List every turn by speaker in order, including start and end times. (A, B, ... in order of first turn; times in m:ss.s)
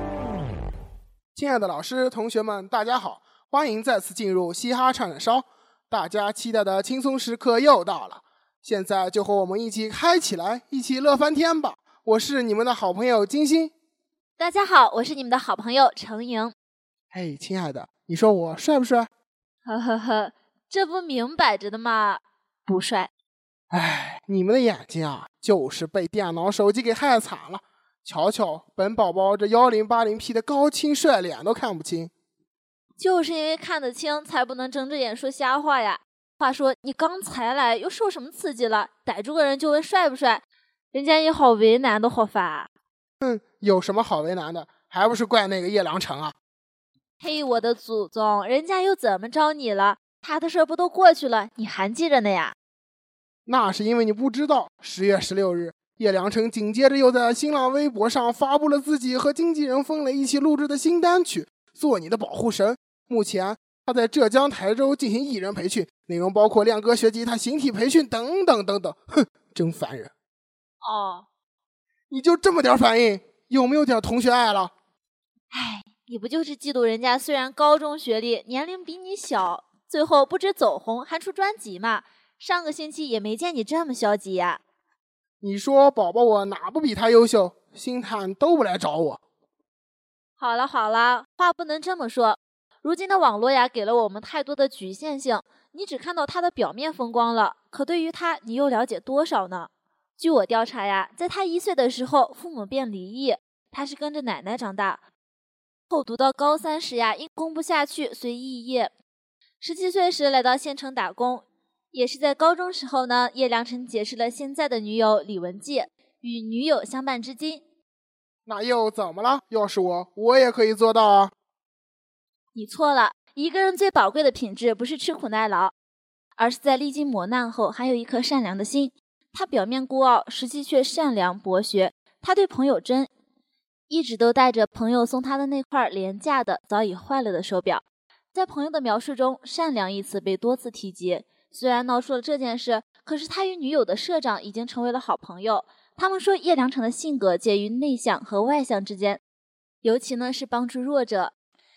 0:01.3-0:13.7 A
0:14.4-0:16.5 B
0:17.1-0:19.1 A
0:19.7-0:23.1 B
0:23.7-0:32.1 A
0:33.0-0:40.4 B
0:40.9-0:42.7 B
0:43.2-0:46.4 A
0:47.2-0:52.6 B
0:53.5-1:10.1 A
1:10.8-1:11.3 B
1:12.1-1:14.7 A
1:15.5-1:24.6 B
1:25.4-1:29.2 A
1:30.4-1:45.0 B
1:45.9-1:48.9 B
1:49.6-1:57.6 B
1:58.5-2:01.3 A
2:02.6-2:05.7 B
2:06.4-2:13.1 B
2:13.9-2:17.8 B
2:18.3-2:29.2 B
2:29.8-2:31.3 B